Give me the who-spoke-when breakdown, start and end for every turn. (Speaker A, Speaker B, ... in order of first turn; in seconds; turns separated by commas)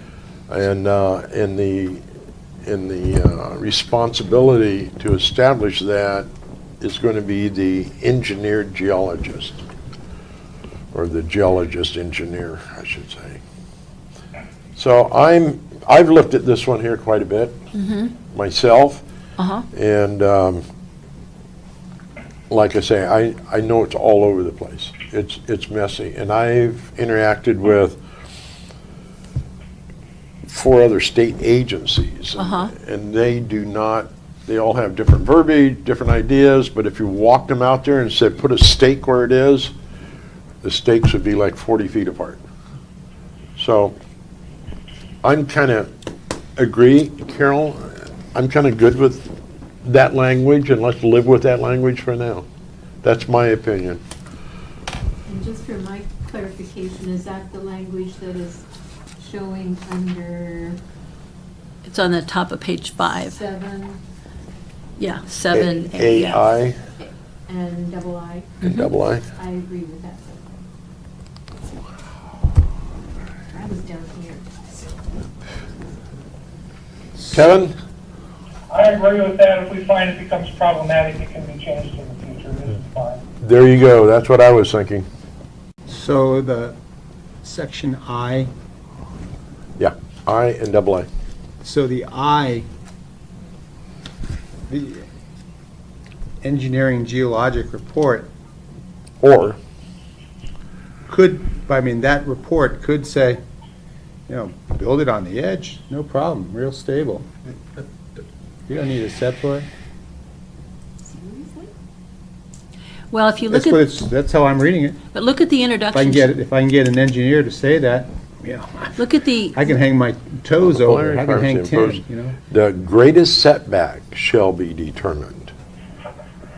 Speaker A: 0.5-2.0, Speaker A: 2.6-6.3, Speaker A: 6.8-9.6, Speaker A: 10.9-13.4, Speaker A: 14.8-17.6, Speaker B: 17.7-18.1, Speaker A: 18.3-19.0, Speaker B: 19.4-19.7, Speaker A: 19.7-20.6, Speaker A: 22.5-28.0, Speaker A: 30.5-39.7, Speaker B: 32.4-32.7, Speaker A: 40.6-42.4, Speaker A: 43.6-44.0, Speaker A: 45.2-45.9, Speaker A: 46.6-49.3, Speaker A: 49.8-52.5, Speaker A: 53.0-54.0, Speaker C: 55.3-58.6, Speaker C: 59.2-60.8, Speaker B: 61.8-63.4, Speaker C: 63.1-64.0, Speaker B: 65.0-66.4, Speaker A: 65.5-66.8, Speaker C: 67.0-68.8, Speaker A: 68.6-69.3, Speaker B: 68.6-68.9, Speaker C: 69.3-70.5, Speaker C: 73.5-74.5, Speaker A: 77.2-77.8, Speaker D: 78.7-83.2, Speaker A: 83.4-85.1, Speaker E: 85.9-86.8, Speaker E: 87.4-88.5, Speaker A: 89.8-91.1, Speaker E: 91.6-92.7, Speaker E: 94.7-95.0, Speaker E: 96.4-98.3, Speaker A: 99.2-99.6, Speaker E: 101.1-103.4, Speaker E: 104.3-107.3, Speaker E: 108.7-109.7, Speaker C: 111.1-111.7, Speaker B: 113.1-113.8, Speaker E: 113.5-115.0, Speaker B: 115.1-116.3, Speaker E: 115.9-119.0, Speaker B: 119.0-119.6, Speaker E: 119.5-122.4, Speaker A: 120.7-125.5